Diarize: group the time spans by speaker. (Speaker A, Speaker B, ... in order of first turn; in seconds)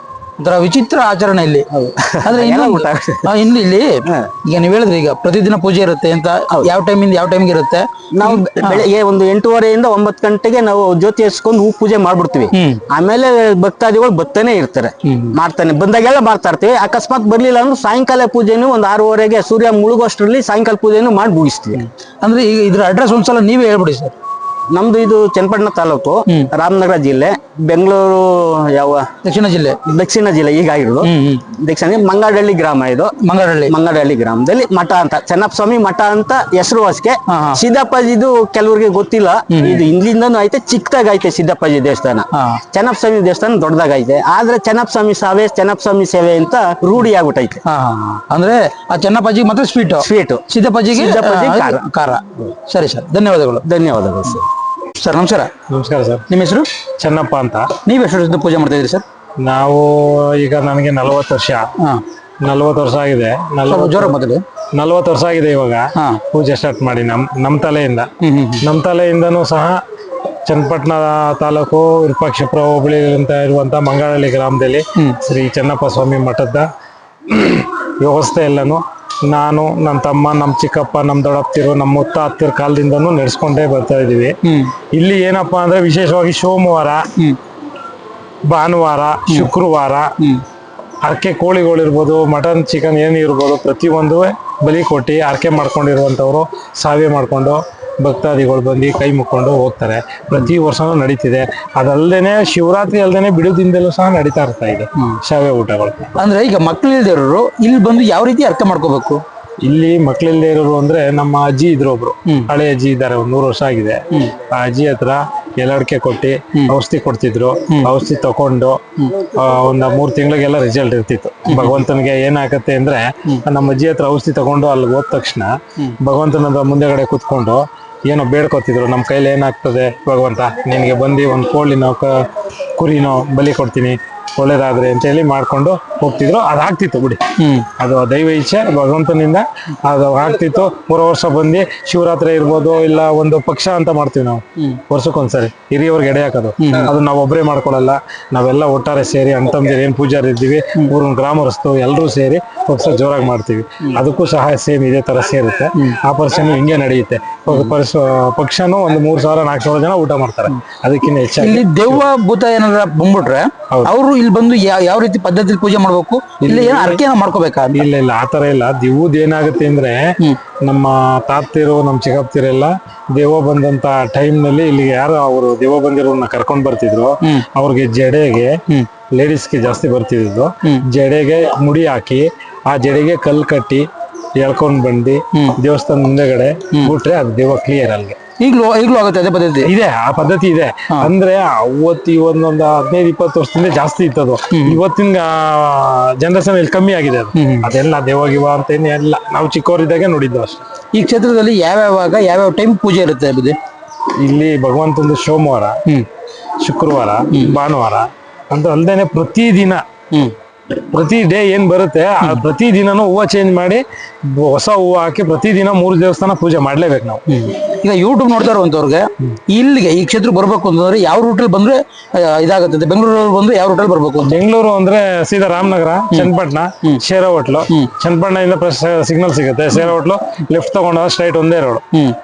Speaker A: 0.4-1.7, 2.2-8.8, 12.5-12.8, 15.1-15.3, 21.8-24.1, 29.2-29.8, 31.0-31.4, 33.2-33.7, 37.3-37.6, 39.5-39.8, 42.3-42.6, 47.7-53.6, 55.0-55.5, 56.3-56.7, 57.9-59.0, 63.7-64.4, 66.0-66.2, 68.2-68.6, 84.5-84.7, 106.2-109.2, 117.7-117.9, 121.5-121.8, 137.4-137.7, 146.6-146.9, 157.5-157.7, 161.4-167.8, 188.4-189.7, 194.5-194.8, 197.3-197.7, 200.9-203.6, 207.3-207.6, 217.3-224.3
Speaker B: 1.7-3.3, 8.2-21.8, 24.7-29.1, 29.9-33.1, 33.7-47.6, 50.0-51.8, 53.6-54.5
Speaker C: 55.7-56.2, 57.0-57.7, 59.4-61.6, 62.4-64.2, 64.8-68.1, 68.6-69.8, 70.5-76.7, 77.3-84.3, 84.9-87.1, 88.5-90.1, 91.0-106.1, 109.7-125.5, 126.0-132.1, 132.8-137.2, 137.8-162.1, 166.4-167.0, 167.7-170.1, 170.6-178.6, 179.1-188.2, 189.7-200.7, 204.1-205.8, 206.6-209.8, 210.8-217.2, 224.2-231.8